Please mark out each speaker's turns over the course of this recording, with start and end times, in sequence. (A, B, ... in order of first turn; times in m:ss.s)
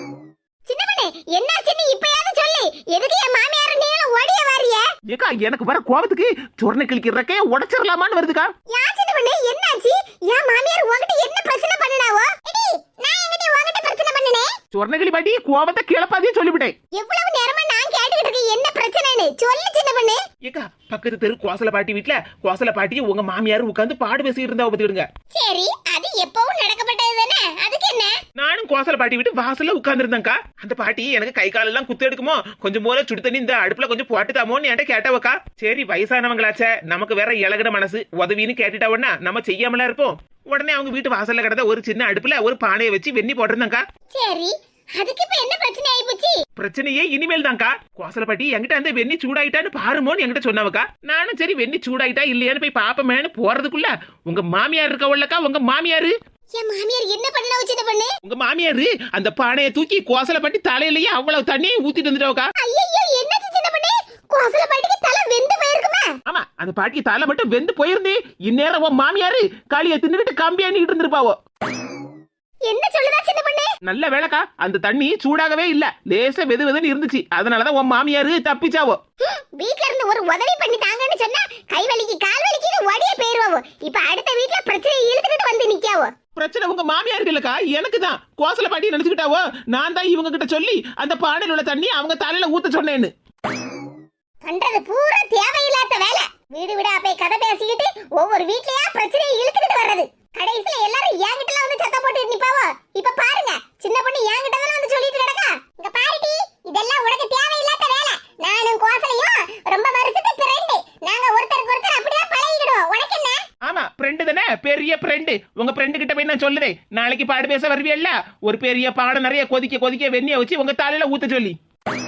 0:00.6-0:04.8 A
0:05.1-0:08.5 B
0:08.7-0:14.5 A
0:14.7-0:16.7 B
0:16.9-0:20.2 A
0:20.4-0:25.1 B
0:25.3-0:28.2 A
0:28.4-0:43.8 B
0:44.1-0:46.4 A
0:46.6-0:56.1 B
0:56.5-0:58.1 A
0:58.2-1:02.4 B
1:02.6-1:06.1 A
1:06.3-1:11.3 B
1:12.6-1:13.7 A
1:13.8-1:19.0 B
1:19.2-1:26.1 A
1:26.4-1:33.1 B
1:34.4-1:53.4 A
1:53.6-2:01.5 B